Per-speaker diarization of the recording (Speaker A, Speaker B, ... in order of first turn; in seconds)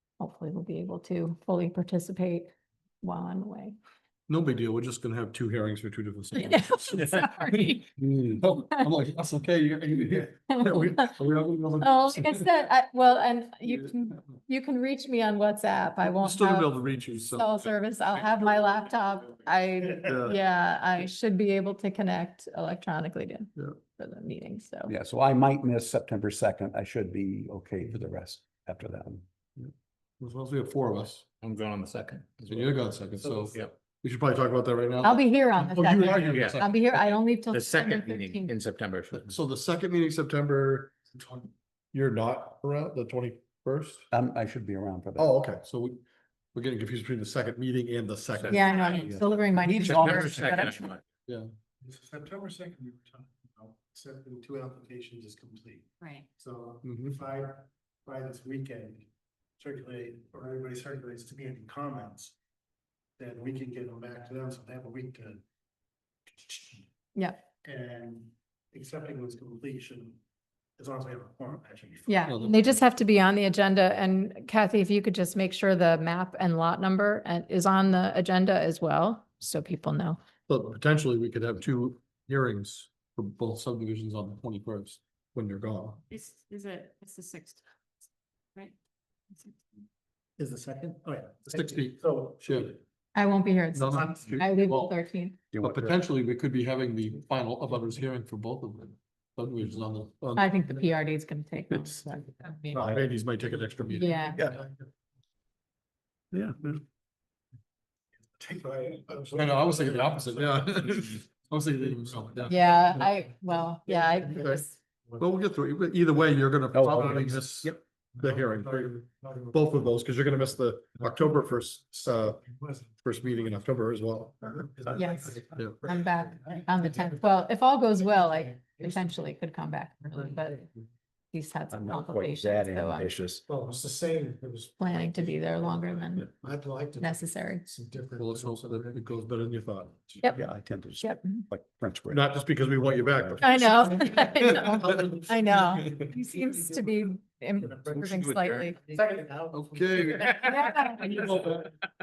Speaker A: 0.2-3.8, 6.3-7.9, 10.5-11.2, 11.8-24.9, 35.0-38.5, 48.5-50.9, 67.1-67.4, 72.1-80.2, 93.1-95.3, 100.3-102.5, 103.9-104.5, 112.4-114.8, 124.9-130.7, 131.3-133.1, 134.8-136.3, 137.0-137.6, 141.0-141.4, 143.4-148.8, 150.3-151.3
Speaker B: 4.3-12.5, 16.0-17.5, 20.1-20.4, 29.6-31.3, 32.5-36.8, 39.1-41.1, 41.9-44.0, 45.2-46.0, 46.5-48.8, 56.8-57.2, 72.3-72.8, 80.5-86.0, 91.5-92.8, 93.7-94.9, 95.6-100.6, 102.7-104.3, 109.3-113.0, 115.2-122.4, 123.0-124.6, 138.2-140.2, 142.1-144.9, 149.5-150.7
Speaker C: 24.9-29.2, 44.1-45.3, 48.9-50.8, 95.5-95.9, 106.3-106.8, 116.7-117.8, 131.7-133.4, 140.3-142.2
Speaker D: 31.4-32.7, 37.5-39.3, 49.9-51.0, 148.1-148.5
Speaker E: 33.1-33.6, 41.1-41.5, 51.8-62.3, 63.2-65.4, 66.3-66.9, 67.6-70.2, 70.8-72.2, 90.4-92.8, 93.8-94.6, 104.3-104.9, 108.2-111.3, 112.3-112.6, 113.8-114.5, 116.8-117.4, 118.2-119.7, 122.4-123.0, 124.5-127.2, 133.5-139.1, 144.6-146.6, 147.6-148.2, 148.7-151.7
Speaker F: 48.7-49.0, 56.0-56.3, 86.1-87.6, 89.3-89.6, 102.5-102.8